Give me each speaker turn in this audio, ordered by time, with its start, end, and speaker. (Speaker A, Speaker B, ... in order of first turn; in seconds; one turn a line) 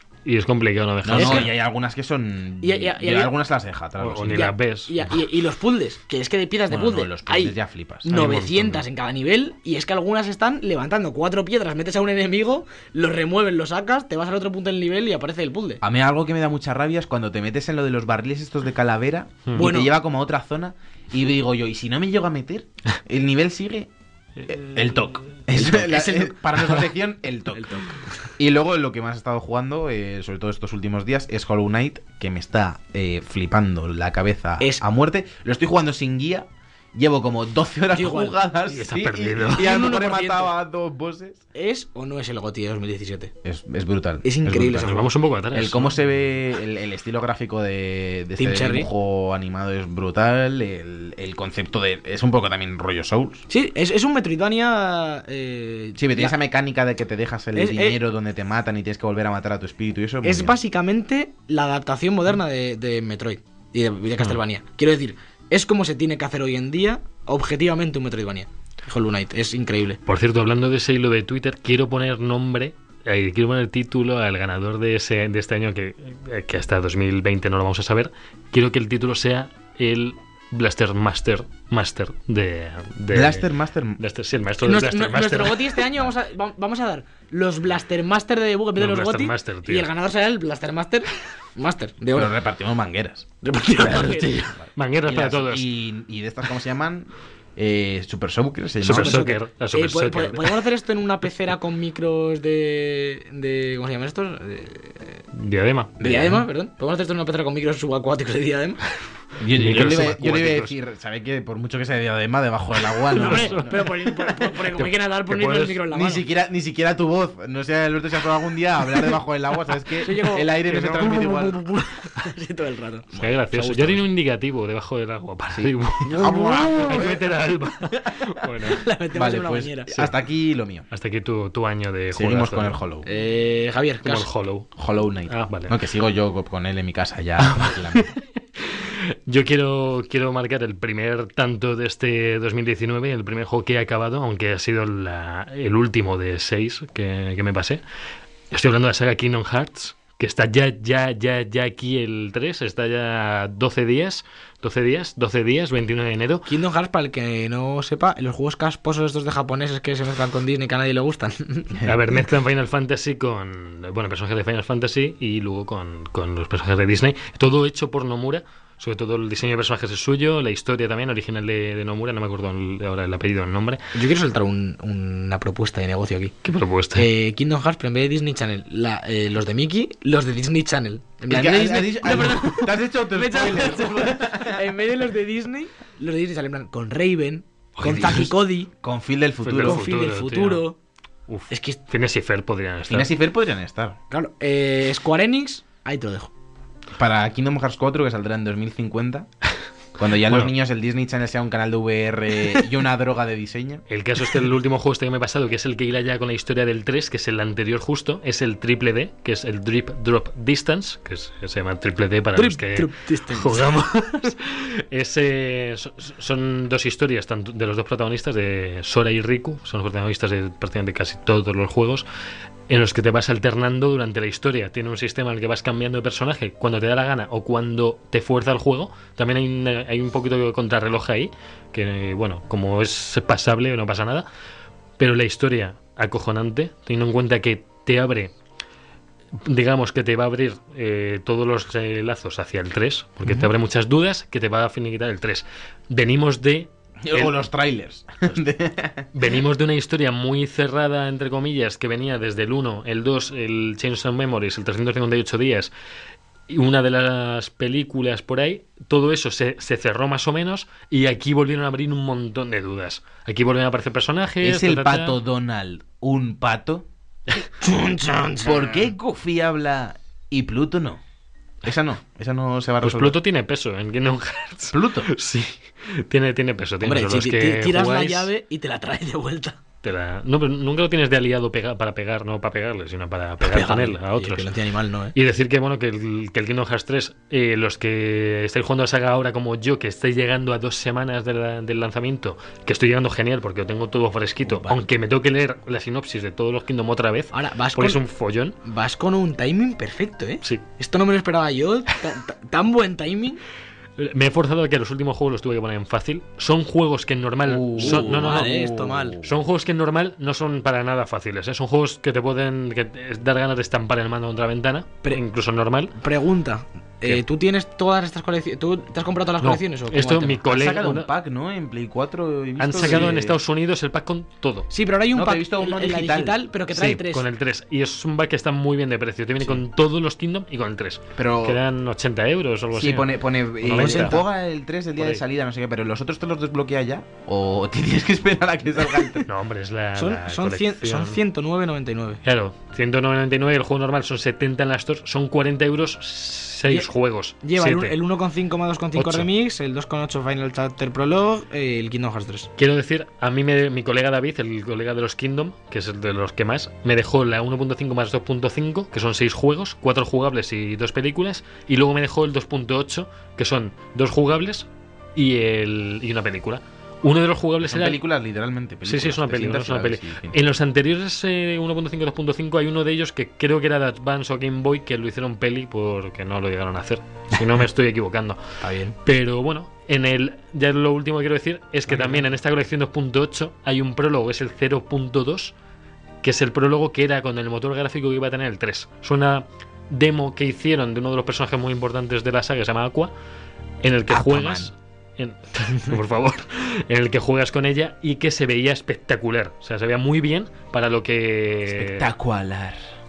Speaker A: 0.2-1.5
Speaker B: 1.0-4.5
Speaker C: 1.1-1.5
Speaker C: 2.6-3.3
Speaker A: 4.0-5.0
Speaker C: 4.3-15.8
Speaker B: 6.7-8.1
Speaker A: 8.1-8.8
Speaker B: 15.8-23.9
Speaker C: 19.5-19.9
Speaker B: 24.4-27.8
Speaker C: 25.5-26.8
Speaker C: 27.5-28.1
Speaker B: 28.4-41.4
Speaker C: 37.9-38.4
Speaker A: 38.7-39.7
Speaker C: 39.5-40.5
Speaker C: 41.5-43.3
Speaker B: 43.4-45.0
Speaker C: 44.2-45.1
Speaker A: 44.8-46.0
Speaker B: 45.5-53.5
Speaker C: 48.4-48.9
Speaker C: 53.5-56.3
Speaker B: 56.0-60.6
Speaker C: 57.5-58.0
Speaker C: 60.2-70.0
Speaker A: 70.0-83.5
Speaker B: 83.1-84.0
Speaker A: 84.0-85.8
Speaker C: 84.6-92.3
Speaker A: 88.8-89.9
Speaker B: 92.1-93.3
Speaker C: 93.4-94.5
Speaker B: 93.8-99.2
Speaker A: 94.8-95.7
Speaker A: 98.8-100.6
Speaker C: 98.9-105.2
Speaker A: 105.3-106.0
Speaker C: 106.0-108.8
Speaker B: 106.0-106.4
Speaker B: 109.4-113.9
Speaker A: 109.5-110.7
Speaker A: 113.0-114.0
Speaker C: 113.1-116.2
Speaker A: 114.7-115.8
Speaker B: 115.9-121.6
Speaker C: 120.0-124.0
Speaker A: 120.6-121.2
Speaker A: 123.2-128.8
Speaker B: 125.5-127.2
Speaker C: 126.1-127.0
Speaker C: 128.6-129.9
Speaker B: 129.1-130.8
Speaker A: 130.9-132.8
Speaker B: 132.1-133.1
Speaker C: 133.0-134.3
Speaker A: 134.0-134.7
Speaker B: 134.8-138.1
Speaker A: 135.3-135.8
Speaker A: 137.4-147.8
Speaker A: 148.5-156.5
Speaker C: 156.4-161.8
Speaker A: 161.8-173.8
Speaker C: 173.9-176.3
Speaker A: 176.4-177.1
Speaker C: 176.9-188.7
Speaker B: 181.3-184.7
Speaker A: 187.8-188.2
Speaker B: 187.8-189.8
Speaker A: 189.4-190.7
Speaker C: 189.6-190.8
Speaker A: 191.3-193.1
Speaker C: 191.5-191.8
Speaker B: 192.9-194.0
Speaker C: 194.1-196.3
Speaker B: 196.9-199.3
Speaker B: 200.0-203.8
Speaker A: 203.9-222.0
Speaker C: 212.3-213.7
Speaker A: 222.7-234.3
Speaker A: 235.0-238.3
Speaker A: 239.4-247.4
Speaker C: 243.2-243.5
Speaker B: 247.0-249.1
Speaker A: 249.1-255.7
Speaker A: 256.5-265.2
Speaker B: 264.4-266.9
Speaker C: 267.6-268.9
Speaker B: 268.4-271.0
Speaker B: 271.6-273.2
Speaker A: 272.8-278.3
Speaker B: 274.7-275.1
Speaker C: 276.8-279.6
Speaker A: 279.8-284.5
Speaker C: 283.4-285.1
Speaker A: 285.1-298.6
Speaker C: 297.3-298.0
Speaker C: 298.6-303.4
Speaker A: 304.0-308.6
Speaker B: 307.4-309.4
Speaker C: 307.8-309.1
Speaker A: 309.2-315.9
Speaker C: 316.0-320.4
Speaker A: 319.4-321.1
Speaker B: 320.4-323.4
Speaker A: 322.6-324.7
Speaker C: 322.8-323.1
Speaker C: 324.7-327.2
Speaker B: 325.1-326.4
Speaker A: 326.7-334.2
Speaker B: 331.1-331.6
Speaker B: 332.7-339.3
Speaker C: 333.7-334.2
Speaker A: 339.2-341.2
Speaker C: 339.9-342.2
Speaker A: 342.2-347.9
Speaker C: 347.4-352.5
Speaker A: 348.9-349.3
Speaker A: 352.6-368.0
Speaker B: 367.6-370.4
Speaker A: 368.8-378.4
Speaker C: 378.6-378.9
Speaker A: 379.0-385.5
Speaker A: 386.2-393.1
Speaker A: 393.8-402.1
Speaker B: 394.1-394.7
Speaker B: 401.7-402.9